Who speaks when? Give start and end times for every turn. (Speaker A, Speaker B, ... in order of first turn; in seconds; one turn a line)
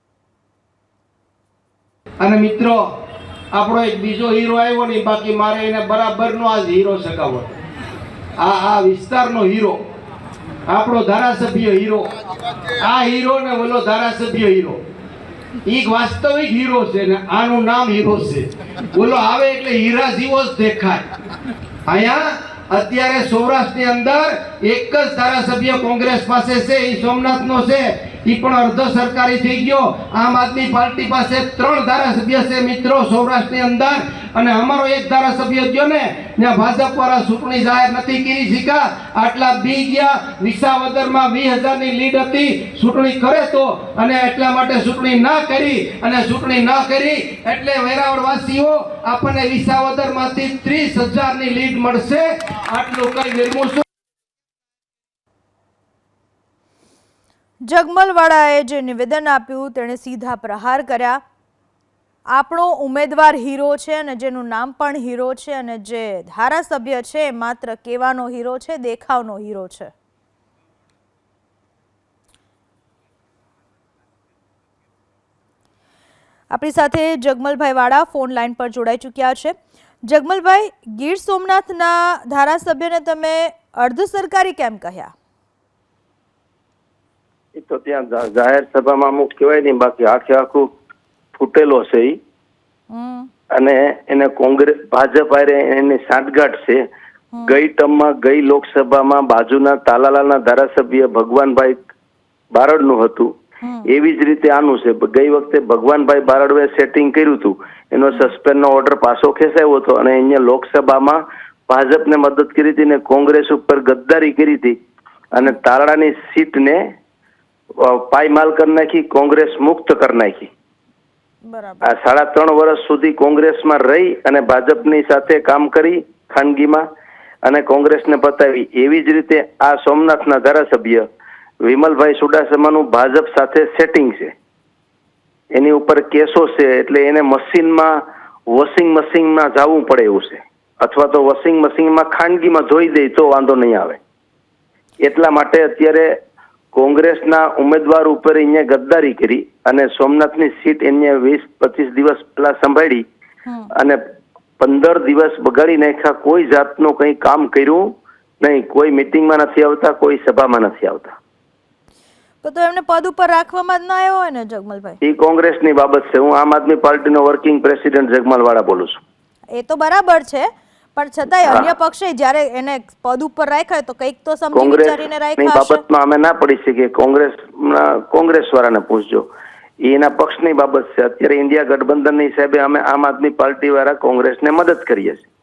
Speaker A: 2.2-2.8
Speaker A: 3.5-7.5
Speaker A: 8.4-9.8
Speaker A: 10.7-12.1
Speaker A: 12.8-14.8
Speaker A: 15.7-21.0
Speaker A: 21.9-53.8
Speaker B: 57.6-61.2
Speaker B: 62.3-69.9
Speaker B: 76.5-85.1
Speaker C: 87.5-90.7
Speaker C: 91.3-92.2
Speaker B: 92.9-93.3
Speaker C: 93.5-96.8
Speaker C: 97.4-101.9
Speaker C: 102.5-103.3
Speaker B: 103.6-103.9
Speaker C: 103.9-114.8
Speaker C: 115.3-116.9
Speaker C: 117.8-120.5
Speaker B: 121.5-121.9
Speaker C: 121.8-126.8
Speaker C: 127.4-131.1
Speaker C: 131.6-134.3
Speaker C: 135.5-138.0
Speaker C: 138.5-144.0
Speaker C: 145.0-146.1
Speaker C: 146.7-153.1
Speaker C: 154.6-161.2
Speaker B: 162.4-165.0
Speaker C: 165.0-169.0
Speaker B: 169.5-175.8
Speaker C: 174.5-179.3
Speaker C: 179.8-185.3